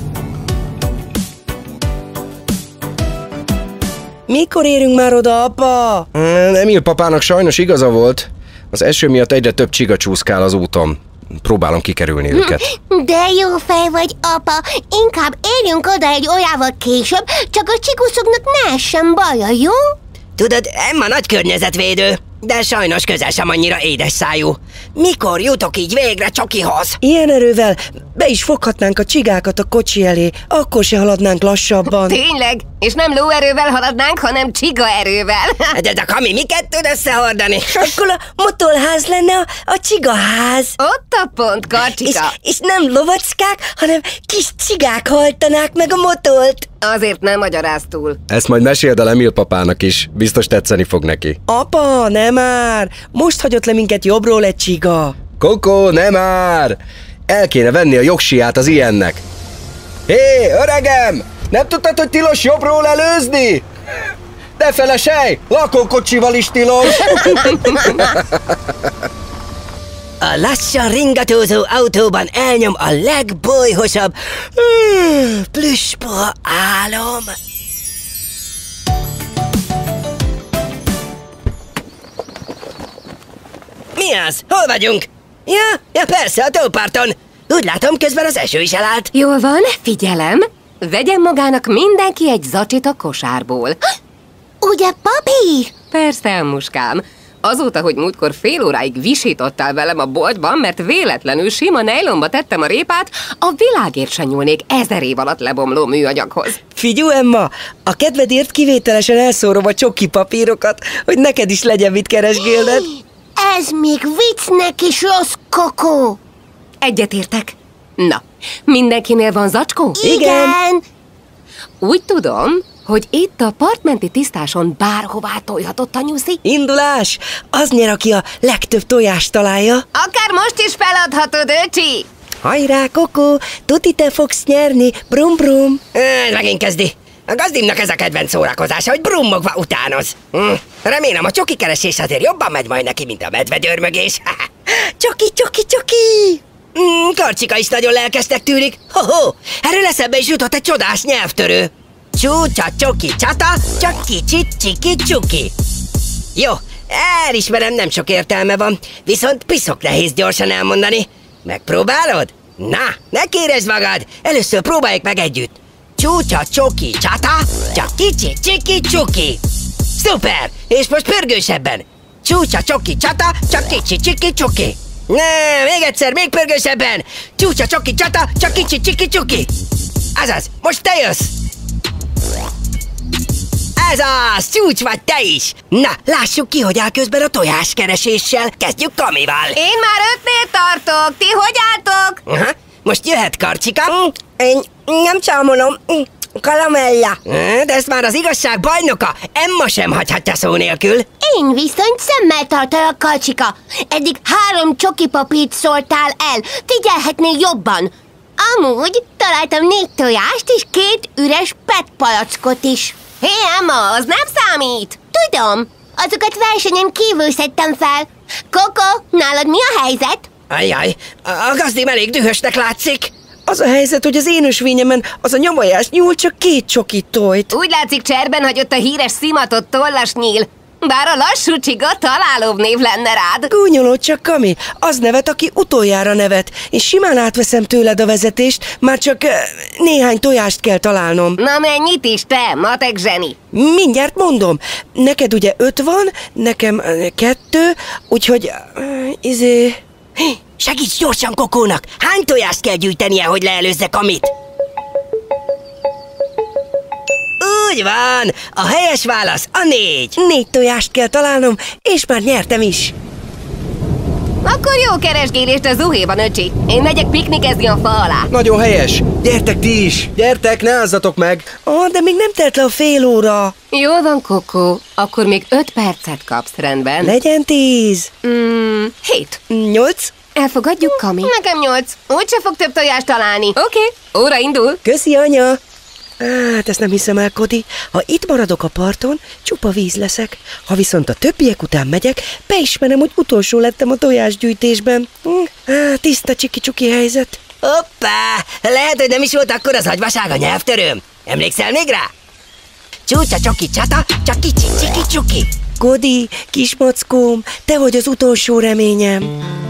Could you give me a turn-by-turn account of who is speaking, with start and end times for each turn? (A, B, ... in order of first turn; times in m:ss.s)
0:04.3-0:06.1 A
0:06.1-0:12.6 B
0:12.4-0:19.8 C
0:20.4-0:27.0 D
0:27.0-0:32.2 A
0:32.0-0:35.7 E
0:35.7-0:38.0 D
0:37.7-0:40.8 A
0:40.8-0:42.3 E
0:42.0-0:46.7 A
0:46.8-0:48.2 E
0:48.3-0:51.4 B
0:51.5-0:55.2 A
0:55.4-0:59.2 B
1:00.1-1:03.6 B
1:04.6-1:08.2 B
1:07.4-1:08.0 E
1:10.2-1:17.4 D
1:24.0-1:29.1 D
1:29.1-1:33.8 E
1:34.6-1:35.7 C
1:35.7-1:46.6 E
1:46.8-1:52.9 A
1:53.4-1:56.2 C
1:56.8-2:00.0 E
2:00.0-2:00.8 C
2:00.0-2:00.6 A
2:01.8-2:06.4 E
2:06.4-2:09.8 A
2:09.9-2:12.1 E
2:12.4-2:15.8 A
2:15.9-2:24.5 D
2:24.8-2:26.4 A
2:26.7-2:35.5 D
2:36.4-2:49.4 D
2:50.0-2:59.5 D
3:00.1-3:01.3 D
3:03.8-3:09.6 D
3:09.5-3:12.2 E
3:12.3-3:21.1 D
3:21.2-3:26.0 C
3:24.1-3:27.9 E
3:26.5-3:27.6 C
3:28.4-3:31.2 E
3:29.2-3:33.0 C
3:32.9-3:36.9 E
3:35.9-3:40.1 C
3:39.0-3:40.2 E
3:40.5-3:43.1 D
3:43.5-3:47.5 A
3:47.5-3:53.5 E
3:53.5-4:01.4 A
4:01.4-4:03.4 E
4:03.5-4:09.8 A
4:10.6-4:14.3 D
4:17.4-4:20.1 D
4:20.2-4:22.9 A
4:24.4-4:28.3 E
4:28.3-4:31.5 B
4:31.6-4:33.5 A
4:33.7-4:37.2 E
4:37.0-4:38.1 A
4:38.2-4:39.4 E
4:39.5-4:40.1 A
4:40.3-4:44.8 E
4:44.8-4:45.6 A
4:46.2-4:57.4 A
4:57.6-5:02.1 D
5:03.1-5:05.5 D
5:05.8-5:09.3 A